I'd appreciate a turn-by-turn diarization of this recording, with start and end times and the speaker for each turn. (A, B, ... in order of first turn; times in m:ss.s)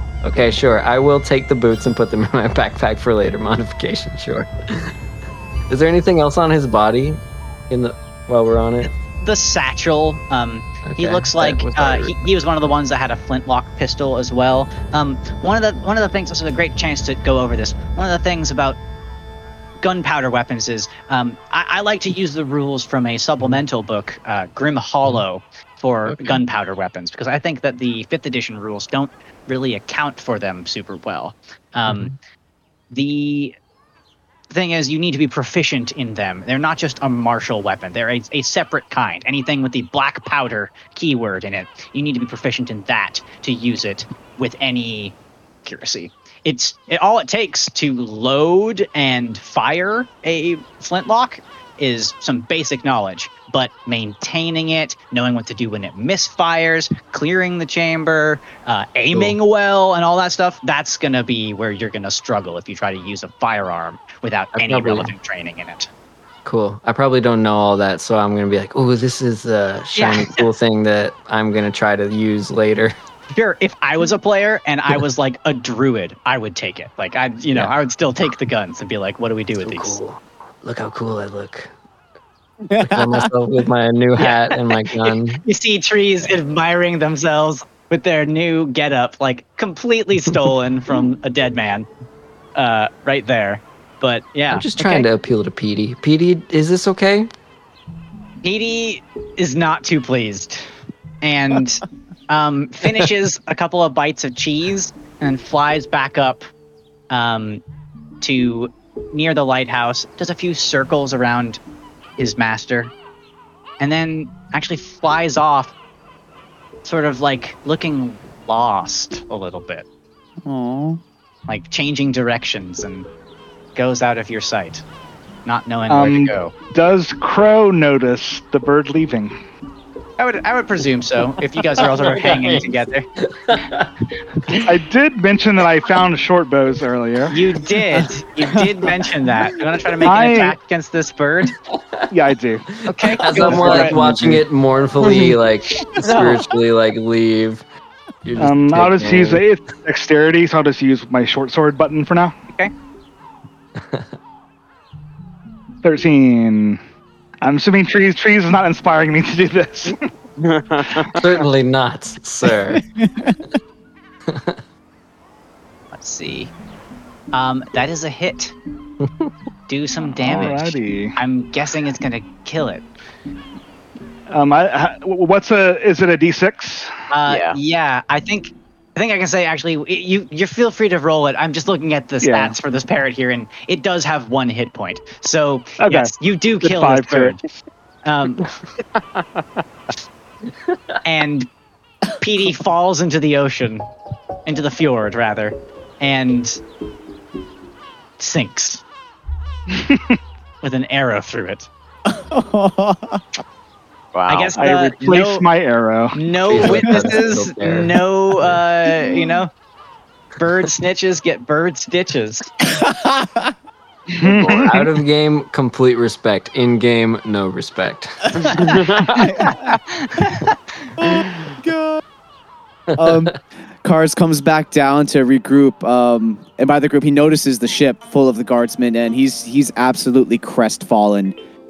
0:00.2-0:04.9 A
0:05.7-0:08.9 A
0:08.8-0:18.8 B
0:10.8-0:12.3 A
0:19.8-0:32.1 B
0:31.9-0:32.1 A
0:32.9-0:33.6 B
0:34.5-1:05.9 B
0:59.1-0:59.4 A
1:04.6-1:05.1 A
1:06.4-1:12.9 A
1:09.9-1:10.4 B
1:13.3-1:20.0 B
1:19.6-1:21.7 A
1:22.7-1:23.3 C
1:22.8-1:25.4 A
1:24.2-1:24.5 B
1:25.1-1:31.9 B
1:32.6-1:35.1 B
1:34.5-1:37.3 A
1:38.4-1:40.7 B
1:41.2-1:46.5 B
1:47.1-1:47.6 B
1:48.2-1:51.6 B
1:52.2-1:52.9 B
1:53.8-1:55.7 B
1:56.8-1:59.9 B
2:00.4-2:01.0 C
2:01.5-2:03.1 B
2:03.8-2:04.8 B
2:05.4-2:06.5 B
2:05.9-2:09.3 D
2:10.2-2:13.1 B
2:11.8-2:13.9 A
2:14.6-2:17.3 D
2:17.3-2:21.5 B
2:20.0-2:20.6 D
2:21.7-2:22.1 A
2:22.1-2:24.4 D
2:22.8-2:24.0 B
2:23.1-2:27.6 A
2:23.7-2:24.1 C
2:25.0-2:25.3 C
2:26.1-2:26.4 E
2:28.2-2:29.4 A
2:28.4-2:32.4 D
2:33.8-2:34.1 A
2:35.8-2:36.8 D
2:37.4-2:40.1 D
2:40.4-2:41.2 E
2:41.1-2:42.8 A
2:42.7-2:43.4 C
2:44.3-2:44.6 A
2:45.9-2:46.5 B
2:47.3-2:48.6 B
2:49.0-2:49.3 A
2:49.7-2:52.9 B
2:50.0-2:51.2 D
2:54.3-2:56.9 D
2:57.1-3:07.4 B
2:57.3-2:57.6 E
3:02.2-3:02.6 D
3:05.8-3:07.4 D
3:08.0-3:08.5 B
3:11.0-3:11.5 B
3:12.2-3:13.9 B
3:14.5-3:16.6 B
3:18.2-3:18.8 B
3:20.6-3:21.7 B
3:22.1-3:23.4 C
3:24.1-3:24.6 E
3:24.3-3:25.5 B
3:24.6-3:26.6 D
3:26.1-3:29.5 B
3:26.5-3:28.0 A
3:30.4-3:32.5 B
3:32.8-3:33.5 C
3:34.2-3:34.8 D
3:34.2-3:34.8 E
3:34.6-3:38.7 A
3:38.6-3:39.3 E
3:39.2-3:39.6 C
3:39.4-3:40.5 B
3:41.0-3:42.0 C
3:43.0-3:51.4 C
3:43.0-3:43.3 A